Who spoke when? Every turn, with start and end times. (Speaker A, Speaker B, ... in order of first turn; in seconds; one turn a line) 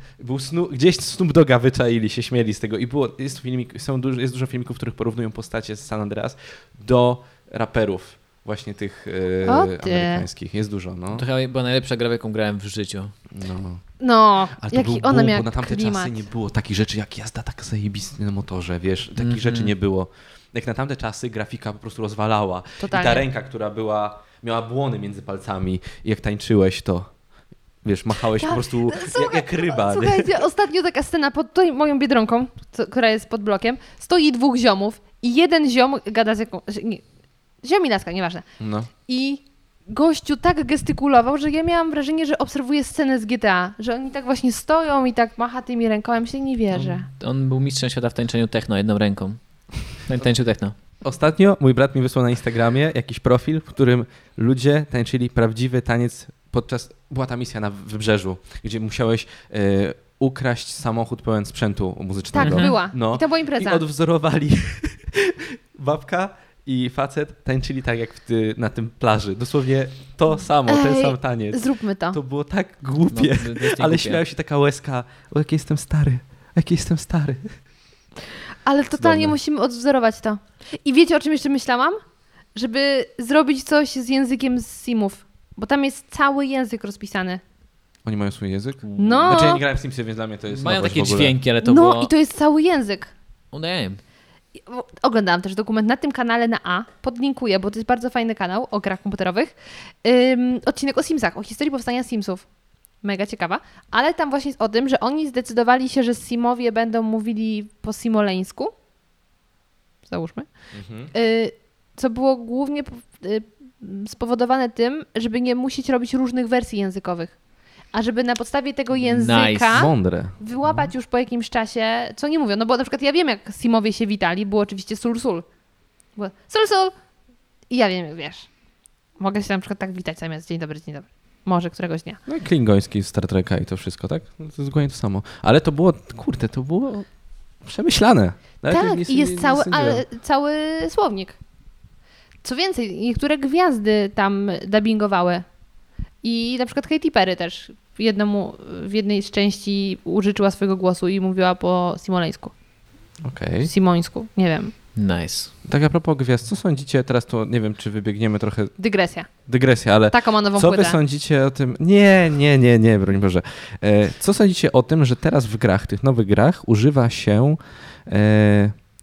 Speaker A: 0.2-11.2
Speaker B: 9.4-10.3
Speaker C: 11.1-13.1
Speaker A: 13.3-13.8
Speaker B: 14.0-16.2
Speaker A: 14.6-27.1
Speaker C: 19.2-19.7
Speaker B: 22.8-23.2
Speaker A: 27.8-30.4
Speaker B: 28.4-37.0
Speaker B: 37.6-38.5
Speaker A: 38.6-38.9
Speaker B: 39.0-47.1
Speaker C: 46.8-50.8
Speaker A: 51.0-77.5
Speaker B: 62.4-63.8
Speaker C: 62.4-62.7
Speaker B: 70.7-72.2
Speaker C: 73.1-74.2
Speaker B: 78.7-82.0
Speaker A: 79.0-79.3
Speaker B: 82.5-87.4
Speaker A: 88.0-91.4
Speaker B: 89.0-89.6
Speaker C: 90.5-92.1
Speaker B: 91.6-93.1
Speaker C: 93.5-94.0
Speaker B: 94.7-102.5
Speaker B: 103.0-108.7
Speaker B: 110.1-110.5
Speaker A: 110.7-111.1
Speaker B: 111.1-117.3
Speaker B: 117.9-125.5
Speaker C: 119.0-119.7
Speaker A: 119.7-120.8
Speaker B: 126.2-126.9
Speaker B: 127.7-128.5
Speaker B: 129.2-132.2
Speaker A: 132.3-137.1
Speaker A: 137.6-140.0
Speaker B: 138.7-141.4
Speaker B: 142.4-145.4
Speaker B: 146.2-152.5
Speaker A: 153.2-153.7
Speaker B: 153.6-154.7
Speaker C: 155.0-155.5
Speaker A: 155.7-158.7
Speaker B: 158.8-159.3
Speaker A: 159.5-168.8
Speaker B: 160.1-161.0